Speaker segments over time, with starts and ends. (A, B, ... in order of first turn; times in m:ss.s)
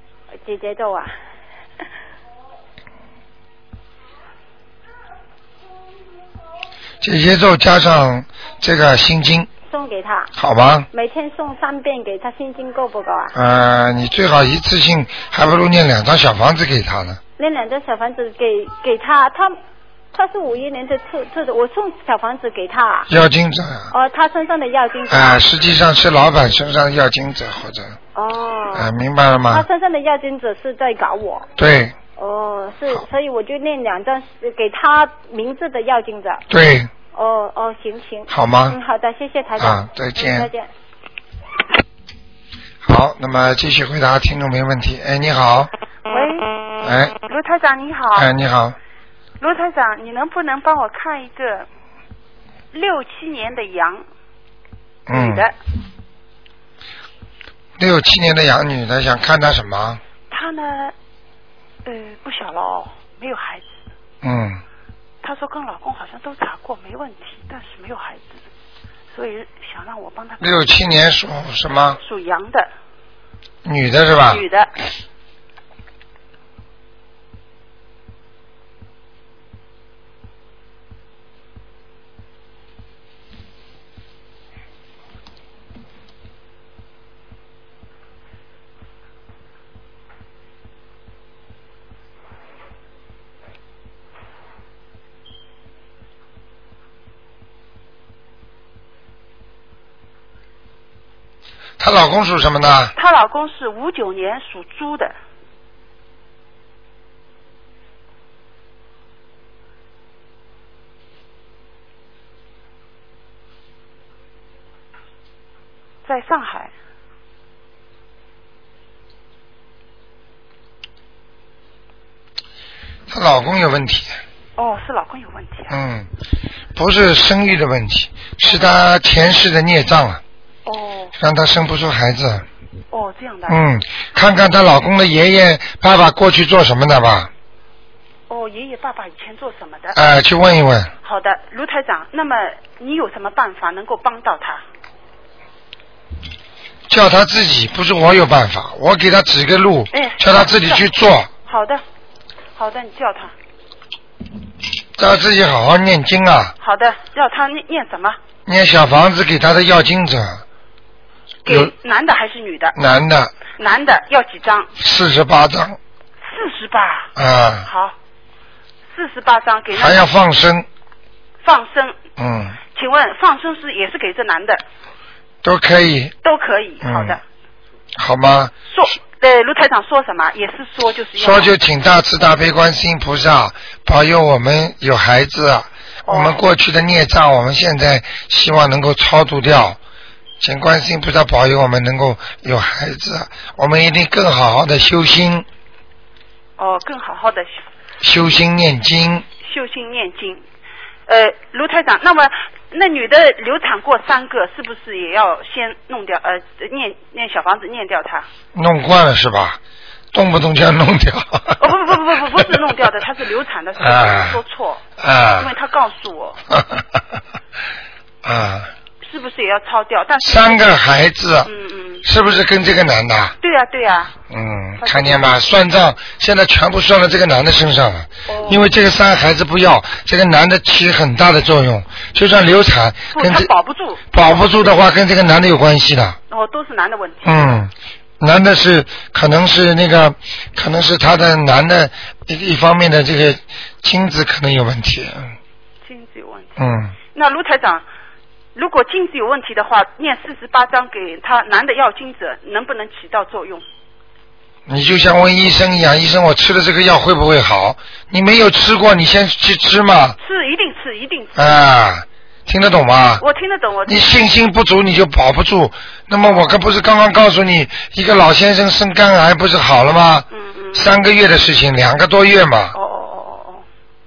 0:00.4-0:01.1 A
0:07.0-0:09.5 B
0:09.7-0:10.3 A
0:10.4-0:10.9 B
0:10.9-0:13.3 A
0:13.3-0:17.2 B
0:17.4-0:19.6 A
0:20.1-0:23.1 A
0:23.1-0:23.9 B
0:23.9-0:25.4 A
0:25.1-0:28.0 B
0:28.2-0:28.9 A
0:28.7-0:29.6 B
0:29.5-0:31.5 A
0:31.6-0:31.9 B
0:32.2-0:36.4 A
0:36.5-0:36.9 B
0:37.1-0:40.7 A
0:38.3-0:38.8 B
0:39.6-0:40.5 B
0:42.8-0:45.7 B
0:46.1-0:46.5 C
0:46.8-0:47.2 B
0:47.2-0:48.3 C
0:48.2-0:48.8 B
0:49.4-0:51.7 C
0:52.7-0:54.0 C
0:55.1-0:55.5 B
0:55.1-0:55.5 C
0:57.8-1:00.0 B
1:00.3-1:00.9 C
1:01.8-1:03.7 C
1:04.2-1:04.6 B
1:05.2-1:08.4 C
1:09.1-1:10.7 C
1:10.4-1:12.0 B
1:12.0-1:12.7 C
1:13.6-1:14.5 B
1:14.3-1:14.7 C
1:41.8-1:42.9 B
1:42.9-1:45.1 C
1:56.0-1:56.7 C
2:03.1-2:04.2 B
2:04.6-2:05.7 C
2:05.7-2:06.1 B
2:06.8-2:10.2 B
2:10.7-2:11.1 C
2:11.2-2:12.4 B
2:12.9-2:13.6 C
2:13.5-2:17.3 B
2:18.3-2:20.0 C
2:19.9-2:20.9 B
2:21.0-2:24.6 C
2:26.9-2:31.3 B
2:29.9-2:30.8 C
2:31.4-2:31.8 C
2:32.6-2:33.3 C
2:35.0-2:36.5 B
2:36.6-2:38.2 C
2:38.4-2:40.4 B
2:41.4-2:42.8 C
2:41.5-2:41.7 B
2:42.8-2:43.3 B
2:43.6-2:44.7 C
2:44.8-2:45.8 B
2:46.2-2:47.1 C
2:47.2-2:47.7 B
2:47.7-2:47.9 C
2:48.9-2:50.1 C
2:49.7-2:50.7 B
2:51.4-2:52.0 C
2:52.2-2:52.6 B
2:52.7-2:54.6 C
2:55.4-2:56.1 B
2:56.2-2:57.2 C
2:56.8-2:57.2 B
2:58.0-2:58.5 B
2:58.7-3:01.5 C
3:01.2-3:09.8 B
3:06.1-3:06.4 C
3:10.4-3:15.4 B
3:16.6-3:17.6 C
3:18.0-3:19.2 B
3:19.4-3:20.4 C
3:21.1-3:28.3 C
3:28.5-3:29.6 B
3:30.1-3:31.6 B
3:31.6-3:34.8 C
3:32.2-3:32.6 B
3:33.8-3:34.4 B
3:35.0-3:35.5 B
3:35.4-3:36.4 C
3:36.5-3:37.0 B
3:38.2-3:38.7 B
3:39.0-3:40.8 C
3:40.2-3:41.5 B
3:41.4-3:42.0 C
3:42.0-3:43.4 B
3:43.4-3:44.1 C
3:44.3-3:53.5 B
3:44.8-3:45.3 C
3:48.3-3:48.6 C
3:53.1-3:54.7 C
3:54.1-3:56.2 B
3:56.3-3:57.6 C
3:57.2-4:05.3 B
4:05.8-4:06.6 C
4:06.6-4:06.9 B
4:07.1-4:07.8 C
4:08.6-4:13.6 C
4:14.7-4:20.2 B
4:20.2-4:21.6 C
4:21.4-4:23.2 B
4:23.2-4:24.2 C
4:23.9-4:32.8 B
4:26.2-4:26.5 C
4:30.3-4:30.8 C
4:32.7-4:33.6 C